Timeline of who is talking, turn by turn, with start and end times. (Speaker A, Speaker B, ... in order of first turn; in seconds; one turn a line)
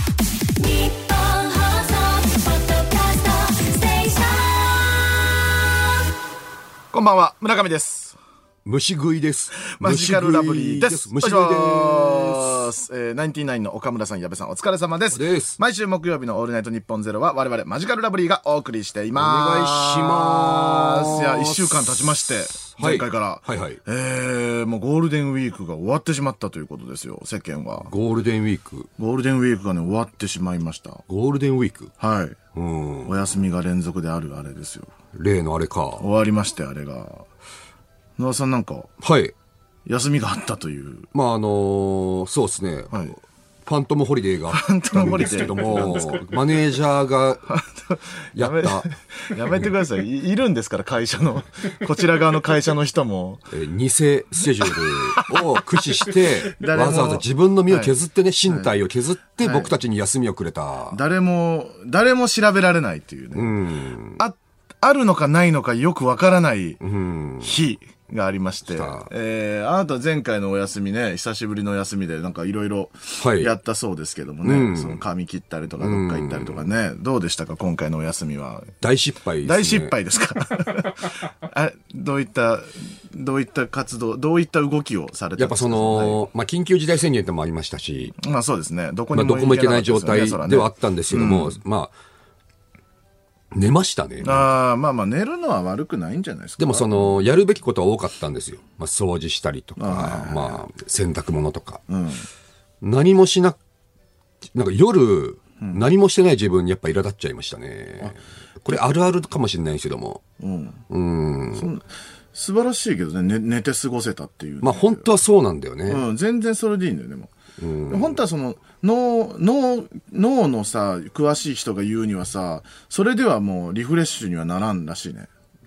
Speaker A: 0.6-5.2
Speaker B: 6.9-8.2
Speaker C: 8.6-12.7
Speaker B: 9.7-27.9
Speaker C: 15.1-15.6
Speaker C: 19.1-22.1
Speaker C: 22.7-23.8
Speaker C: 27.9-28.9
Speaker B: 29.0-31.0
Speaker C: 31.1-31.9
Speaker B: 32.0-32.4
Speaker C: 32.5-33.1
Speaker B: 33.0-34.9
Speaker C: 35.1-36.0
Speaker B: 36.0-37.2
Speaker B: 38.2-38.9
Speaker C: 39.0-39.3
Speaker B: 39.9-41.1
Speaker C: 41.1-43.1
Speaker C: 43.6-47.5
Speaker B: 44.5-46.3
Speaker B: 47.5-53.5
Speaker C: 48.3-48.9
Speaker C: 53.5-61.0
Speaker B: 54.6-57.9
Speaker B: 59.4-59.7
Speaker B: 60.9-63.6
Speaker C: 63.3-64.2
Speaker B: 64.2-66.8
Speaker C: 66.8-67.5
Speaker B: 67.4-78.7
Speaker C: 68.7-69.1
Speaker C: 73.2-73.5
Speaker C: 74.4-75.0
Speaker C: 75.8-76.7
Speaker C: 78.8-80.0
Speaker B: 79.4-86.2
Speaker C: 85.4-88.1
Speaker B: 88.2-91.6
Speaker C: 89.1-91.9
Speaker C: 93.5-94.5
Speaker B: 94.2-97.1
Speaker C: 96.6-101.8
Speaker B: 99.8-100.6
Speaker B: 101.9-102.3
Speaker C: 102.8-103.6
Speaker C: 104.5-110.2
Speaker B: 110.4-110.8
Speaker C: 110.9-111.7
Speaker B: 111.5-115.1
Speaker C: 114.6-116.0
Speaker B: 115.9-117.3
Speaker C: 117.6-118.2
Speaker B: 117.9-125.3